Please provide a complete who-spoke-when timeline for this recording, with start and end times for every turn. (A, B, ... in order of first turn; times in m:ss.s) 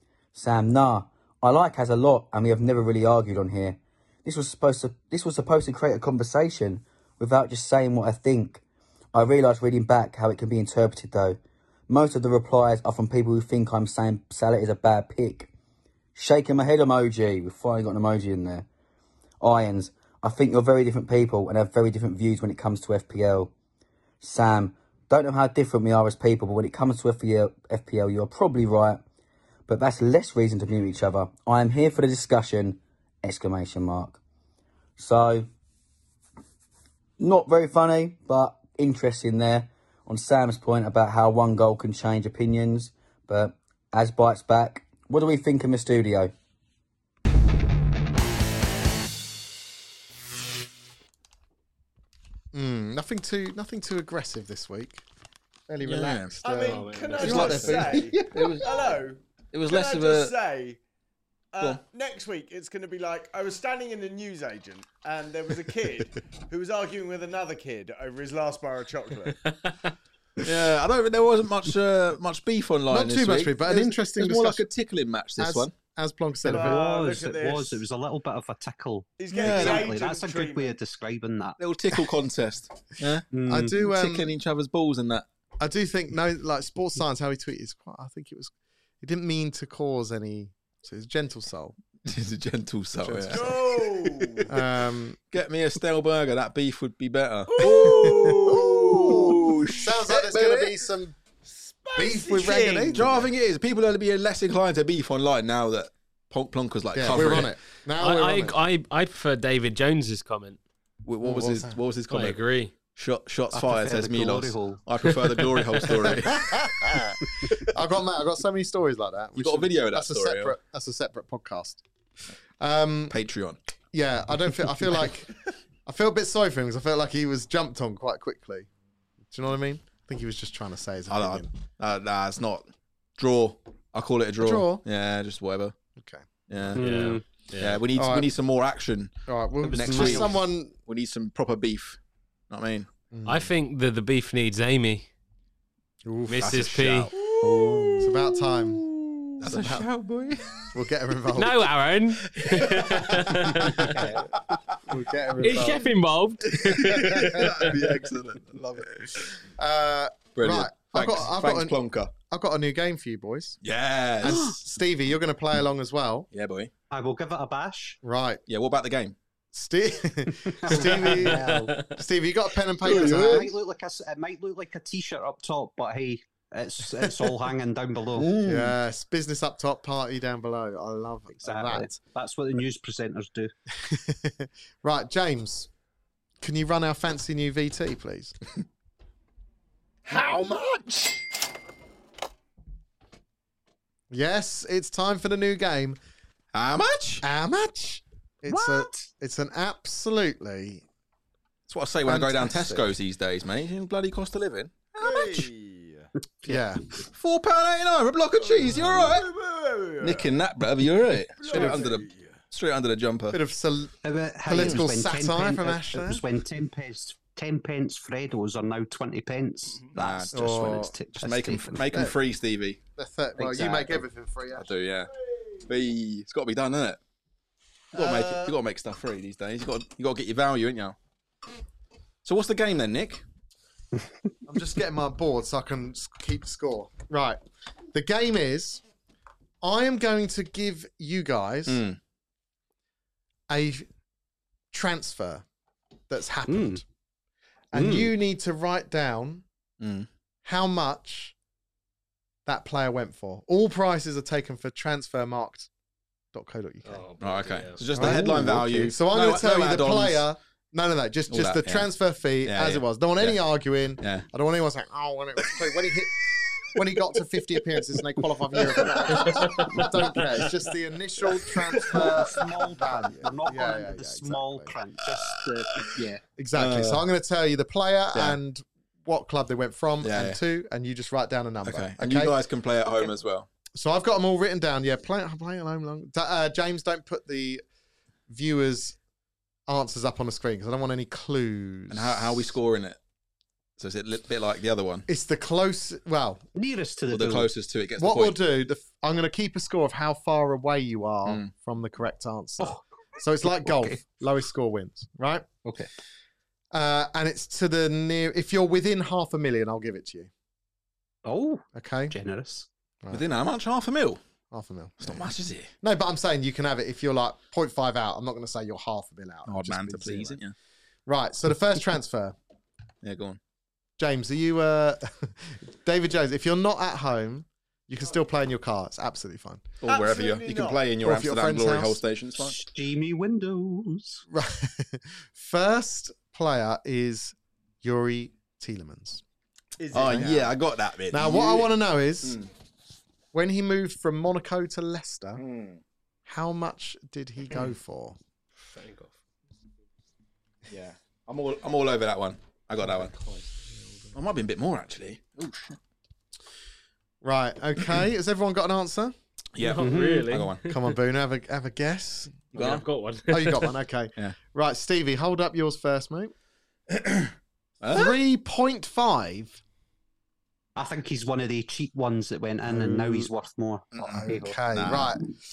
0:00.4-0:08.6 A
0:09.1-0:15.5 A
0:16.2-0:18.7 A
0:19.4-0:23.5 A
0:24.2-0:29.0 A
0:29.7-0:34.2 A
0:35.0-0:35.5 A
0:37.2-0:46.3 A
0:52.5-0:55.0 B
0:55.7-0:58.1 B
0:55.8-0:56.4 C
0:56.4-1:00.8 D
0:56.6-0:58.0 E
0:57.2-0:59.0 C
0:59.5-1:00.3 C
1:01.5-1:09.7 D
1:10.4-1:15.7 C
1:12.9-1:14.6 B
1:15.4-1:16.8 B
1:16.4-1:17.8 D
1:16.4-1:21.6 F
1:19.2-1:20.8 D
1:19.3-1:19.9 C
1:21.6-1:25.2 C
1:23.3-1:23.8 F
1:23.5-1:24.3 B
1:25.6-1:31.8 B
1:32.0-1:34.6 C
1:33.0-1:33.6 B
1:33.3-1:34.5 D
1:34.5-1:35.2 B
1:35.3-1:40.2 C
1:37.5-1:40.7 D
1:37.6-1:41.2 B
1:41.5-1:43.3 D
1:42.0-1:43.1 B
1:43.0-1:47.5 C
1:47.0-1:48.6 B
1:48.0-1:50.6 E
1:51.0-1:52.4 C
1:51.2-1:51.8 B
1:52.1-1:52.7 E
1:53.0-1:56.7 C
1:53.5-1:55.9 F
1:56.0-2:01.8 B
1:59.4-2:00.6 C
2:02.6-2:03.2 B
2:03.1-2:03.6 C
2:03.9-2:05.3 B
2:05.9-2:08.7 B
2:09.3-2:11.5 B
2:11.1-2:12.6 C
2:13.2-2:15.8 C
2:14.4-2:14.8 B
2:16.0-2:16.8 B
2:16.5-2:19.1 C
2:16.8-2:17.2 F
2:16.8-2:17.8 E
2:17.9-2:18.3 B
2:19.3-2:20.8 B
2:19.6-2:20.4 F
2:19.7-2:22.0 C
2:22.5-2:22.9 C
2:23.1-2:23.5 B
2:23.3-2:25.1 E
2:26.0-2:26.6 B
2:26.3-2:27.1 E
2:26.4-2:30.8 C
2:27.4-2:28.1 F
2:28.0-2:28.8 B
2:29.4-2:29.9 B
2:30.7-2:31.7 B
2:31.4-2:34.0 E
2:32.3-2:34.1 C
2:33.4-2:34.1 B
2:34.9-2:35.9 B
2:35.4-2:37.7 E
2:36.6-2:39.4 C
2:36.9-2:37.5 B
2:39.6-2:43.6 B
2:40.4-2:42.1 C
2:43.6-2:44.5 C
2:44.2-2:46.3 B
2:44.2-2:44.5 F
2:46.3-2:46.7 C
2:46.9-2:48.0 F
2:48.0-2:48.4 B
2:48.5-2:49.2 C
2:49.5-2:53.5 B
2:50.5-2:51.8 F
2:51.0-2:51.9 E
2:52.8-2:53.5 C
2:52.8-2:58.4 F
2:58.2-2:58.8 C
2:58.4-3:02.0 B
3:01.4-3:03.5 F
3:03.8-3:05.7 B
3:06.4-3:08.4 B
3:10.1-3:11.3 D
3:14.1-3:16.0 B
3:16.5-3:17.2 C
3:17.2-3:20.8 B
3:18.5-3:19.1 F
3:21.7-3:25.5 C
3:22.0-3:23.0 B
3:25.0-3:26.1 D
3:26.4-3:26.8 B
3:27.1-3:29.3 C
3:28.4-3:30.3 D
3:30.0-3:33.4 C
3:31.4-3:32.4 D
3:31.5-3:31.8 B
3:33.3-3:33.9 B
3:34.0-3:42.1 F
3:34.4-3:36.2 B
3:34.6-3:34.8 C
3:39.9-3:40.7 C
3:40.3-3:40.9 B
3:41.2-3:42.8 C
3:43.0-3:44.7 B
3:43.4-3:44.0 F
3:44.6-3:45.1 C
3:45.6-3:47.0 C
3:47.9-3:51.0 C
3:48.0-3:48.4 B
3:52.2-3:53.2 C
3:54.5-3:57.4 B
3:57.9-3:58.8 B
3:59.6-4:01.8 B
4:01.7-4:02.0 C
4:03.5-4:03.9 B
4:04.7-4:05.4 B
4:06.1-4:06.8 B
4:06.5-4:06.8 F
4:07.7-4:09.4 B
4:07.7-4:08.1 F
4:09.8-4:10.1 C
4:10.4-4:11.4 B
4:12.5-4:15.7 B
4:16.3-4:17.0 B
4:16.8-4:17.9 E
4:17.2-4:20.3 C
4:18.0-4:34.8 B
4:18.0-4:18.7 F
4:21.3-4:21.9 C
4:22.4-4:23.4 C
4:24.0-4:24.3 C
4:28.6-4:30.0 C
4:31.9-4:36.2 F
4:35.1-4:37.0 C
4:36.4-4:42.4 B
4:40.0-4:40.4 C
4:41.6-4:43.5 C
4:43.7-4:47.6 B
4:48.3-4:49.0 B
4:49.7-4:52.6 B
4:51.9-4:53.0 C
4:53.8-4:55.1 C
4:55.1-4:56.4 B
4:56.6-4:57.5 F
4:57.1-4:58.4 C
4:58.0-5:05.5 B
5:01.3-5:01.5 C
5:03.4-5:04.0 F
5:06.7-5:10.3 B
5:11.2-5:12.7 F
5:11.7-5:12.2 B
5:13.1-5:14.2 C
5:14.5-5:20.4 B
5:15.0-5:15.7 C
5:19.5-5:20.5 C
5:21.1-5:22.4 B
5:23.0-5:23.4 C
5:24.0-5:29.7 B
5:29.8-5:32.6 C
5:29.9-5:30.9 D
5:31.0-5:32.0 B
5:32.4-5:34.2 F
5:34.3-5:39.2 B
5:39.8-5:40.5 D
5:39.9-5:42.5 C
5:41.1-5:42.4 B
5:43.3-5:45.4 B
5:45.4-5:45.8 C
5:46.3-5:48.2 B
5:48.6-5:49.2 E
5:50.7-5:53.1 C
5:53.1-5:54.1 E
5:54.1-5:55.8 C
5:57.2-5:59.2 B
5:59.6-6:00.8 C
5:59.6-6:00.7 E
5:59.8-6:00.3 F
6:00.6-6:02.4 B
6:02.5-6:02.8 C
6:02.5-6:03.8 E
6:03.3-6:06.3 B
6:06.9-6:08.2 C
6:07.9-6:09.6 B
6:10.8-6:15.1 F
6:12.7-6:13.3 B
6:13.9-6:15.2 C
6:14.1-6:15.2 B